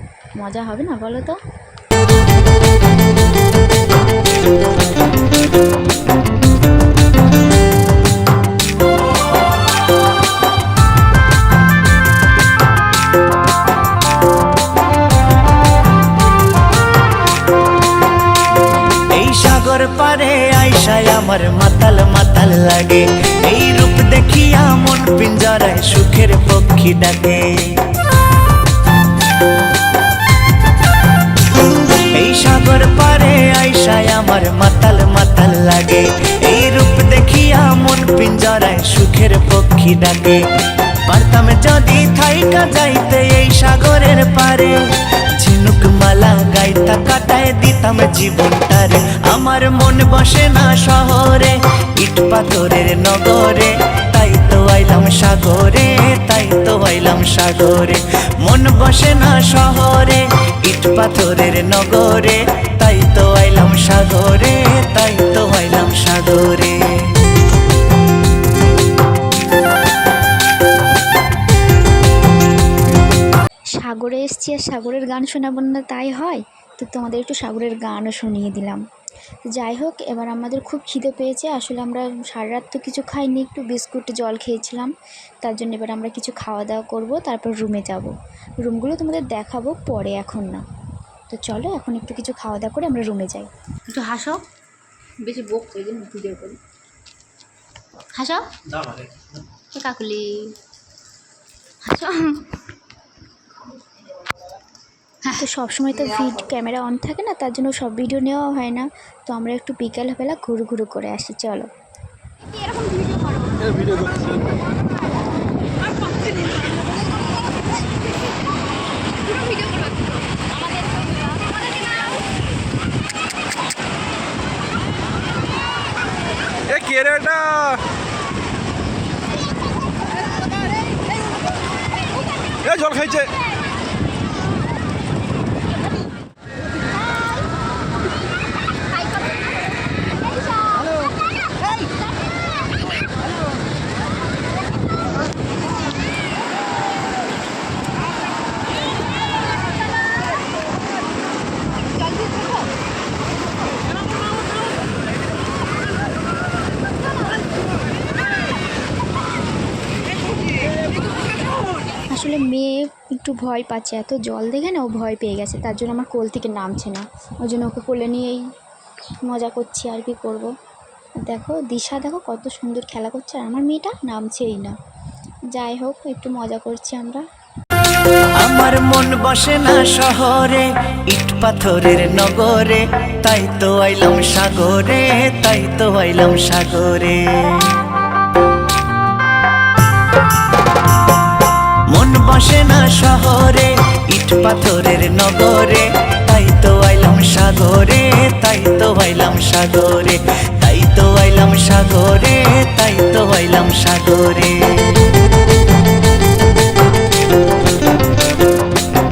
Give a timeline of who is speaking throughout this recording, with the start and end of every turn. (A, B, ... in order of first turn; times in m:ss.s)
0:00.4-0:01.4 A
0:19.1-0:27.9 B
0:32.1-0:40.4 B
0:41.1-0:44.8 B
0:45.4-1:07.2 B
1:13.8-1:18.8 A
1:19.5-1:24.9 A
1:25.4-1:28.1 A
1:28.6-1:30.6 A
1:31.3-1:33.5 A
1:33.9-1:34.4 C
1:35.2-1:36.6 C
1:38.1-1:38.4 C
1:39.7-1:40.5 C
1:41.8-1:42.4 C
1:45.4-1:51.7 A
1:52.6-1:53.7 C
1:53.7-1:54.4 D
1:59.3-2:00.6 C
2:06.7-2:07.8 D
2:12.6-2:13.3 D
2:20.6-2:20.9 C
2:42.1-2:48.4 A
2:49.2-2:50.5 A
2:51.2-2:54.7 A
2:55.5-2:57.2 A
2:58.4-3:07.8 B
3:11.9-3:25.0 B